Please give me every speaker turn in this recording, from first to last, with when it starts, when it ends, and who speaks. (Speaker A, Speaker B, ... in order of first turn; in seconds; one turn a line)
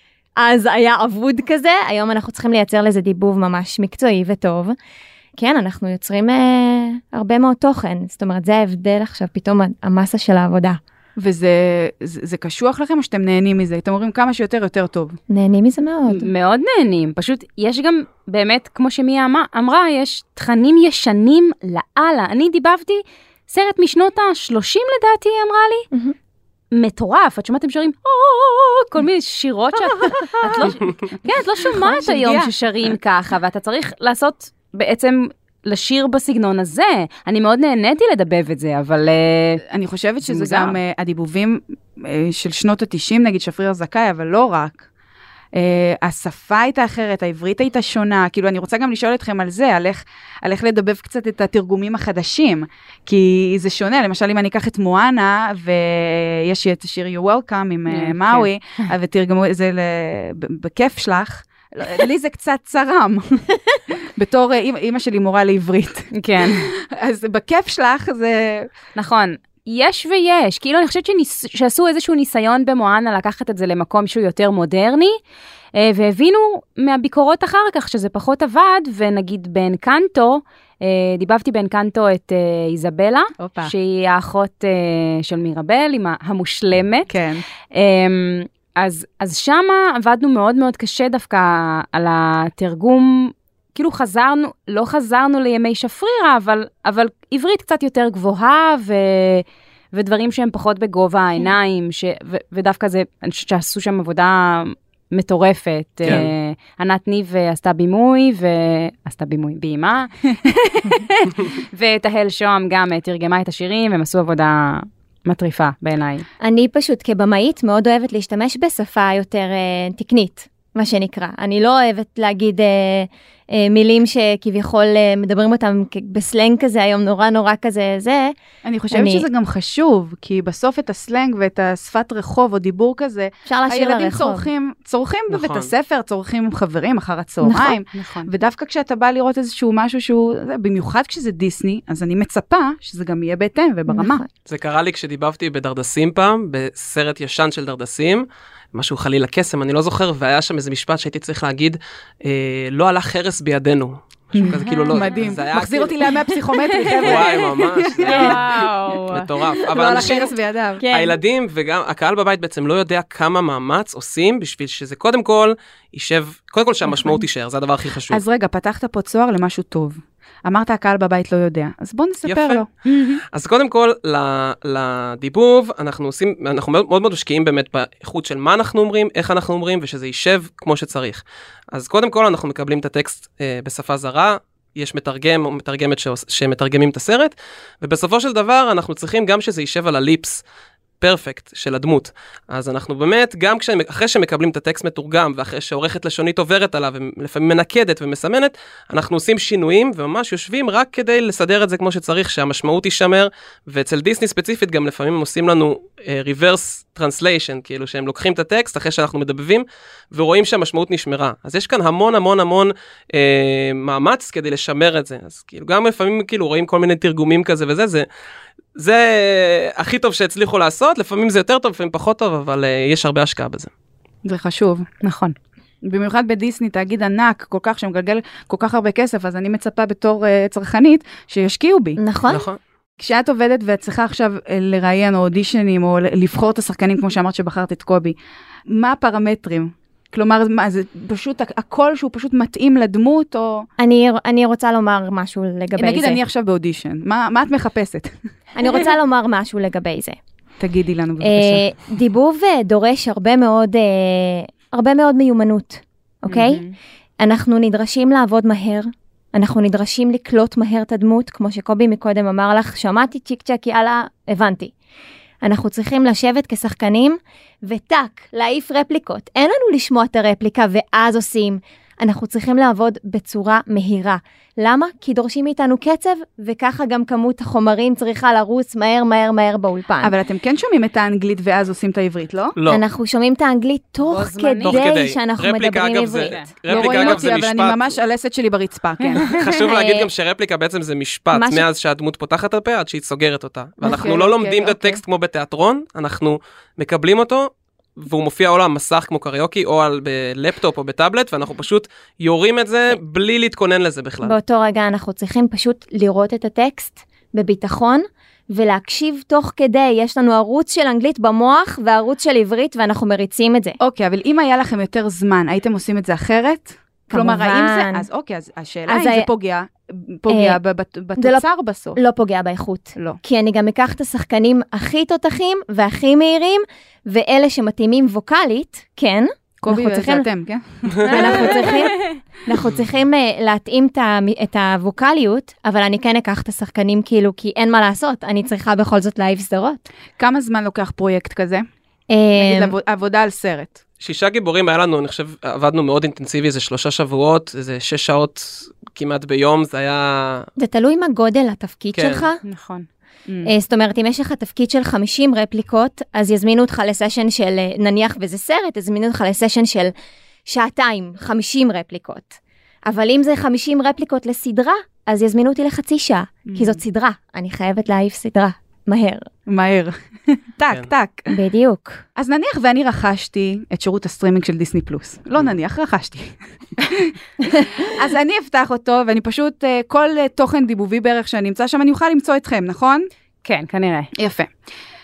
Speaker A: 0.4-4.8
Speaker A: 5.4-10.8
Speaker B: 11.2-15.2
Speaker A: 15.3-16.3
Speaker C: 16.1-25.9
Speaker C: 26.7-39.6
Speaker B: 29.9-30.7
Speaker B: 31.6-32.9
Speaker B: 39.7-44.8
Speaker C: 40.2-40.8
Speaker B: 45.5-63.5
Speaker C: 57.9-58.5
Speaker B: 64.2-68.7
Speaker C: 66.1-66.7
Speaker C: 69.0-75.2
Speaker C: 75.7-87.1
Speaker B: 83.4-83.7
Speaker B: 87.1-87.4
Speaker C: 87.7-116.2
Speaker D: 106.0-106.3
Speaker A: 116.4-128.3
Speaker B: 128.6-144.2
Speaker A: 128.9-129.3
Speaker A: 133.4-134.5
Speaker D: 135.3-135.7
Speaker A: 137.4-137.8
Speaker C: 137.9-138.3
Speaker A: 143.9-144.3
Speaker D: 144.4-156.1
Speaker B: 154.3-158.7
Speaker C: 154.6-155.2
Speaker D: 157.0-158.5
Speaker C: 158.0-159.3
Speaker D: 159.1-160.3
Speaker B: 159.6-160.8
Speaker A: 160.8-161.2
Speaker D: 160.9-168.2
Speaker B: 168.1-173.1
Speaker D: 172.2-172.6
Speaker D: 173.3-190.4
Speaker D: 191.0-218.1
Speaker D: 218.7-223.7
Speaker B: 224.2-224.9
Speaker C: 225.0-225.3
Speaker B: 225.8-232.0
Speaker A: 232.0-232.5
Speaker D: 232.3-232.6
Speaker B: 233.0-238.2
Speaker B: 238.7-243.7
Speaker A: 243.8-246.2
Speaker B: 245.8-248.1
Speaker A: 248.5-250.2
Speaker B: 250.6-251.6
Speaker A: 251.2-256.6
Speaker C: 256.3-256.7
Speaker A: 257.2-264.7
Speaker A: 265.4-280.1
Speaker B: 280.0-282.5
Speaker D: 282.6-282.8
Speaker A: 282.7-287.0
Speaker C: 284.0-284.9
Speaker D: 284.6-288.0
Speaker C: 286.3-286.5
Speaker B: 286.7-289.3
Speaker C: 289.1-289.5
Speaker D: 289.2-304.4
Speaker A: 289.7-290.1
Speaker A: 291.3-291.7
Speaker A: 293.8-294.9
Speaker B: 293.9-294.7
Speaker A: 304.2-313.8
Speaker B: 313.8-322.0
Speaker A: 317.1-318.1
Speaker A: 318.9-319.3
Speaker A: 320.3-320.6
Speaker A: 321.2-321.4
Speaker A: 321.9-330.3
Speaker B: 329.6-331.6
Speaker A: 331.0-339.8
Speaker C: 331.1-332.2
Speaker B: 340.2-341.6
Speaker A: 342.1-342.7
Speaker B: 342.4-343.8
Speaker D: 344.0-350.5
Speaker A: 350.6-352.4
Speaker D: 351.9-352.2
Speaker C: 352.4-352.9
Speaker A: 353.4-359.9
Speaker A: 360.4-369.3
Speaker B: 366.4-366.8
Speaker B: 369.5-371.3
Speaker A: 371.3-372.0
Speaker B: 372.1-383.1
Speaker C: 383.4-384.1
Speaker B: 384.1-384.5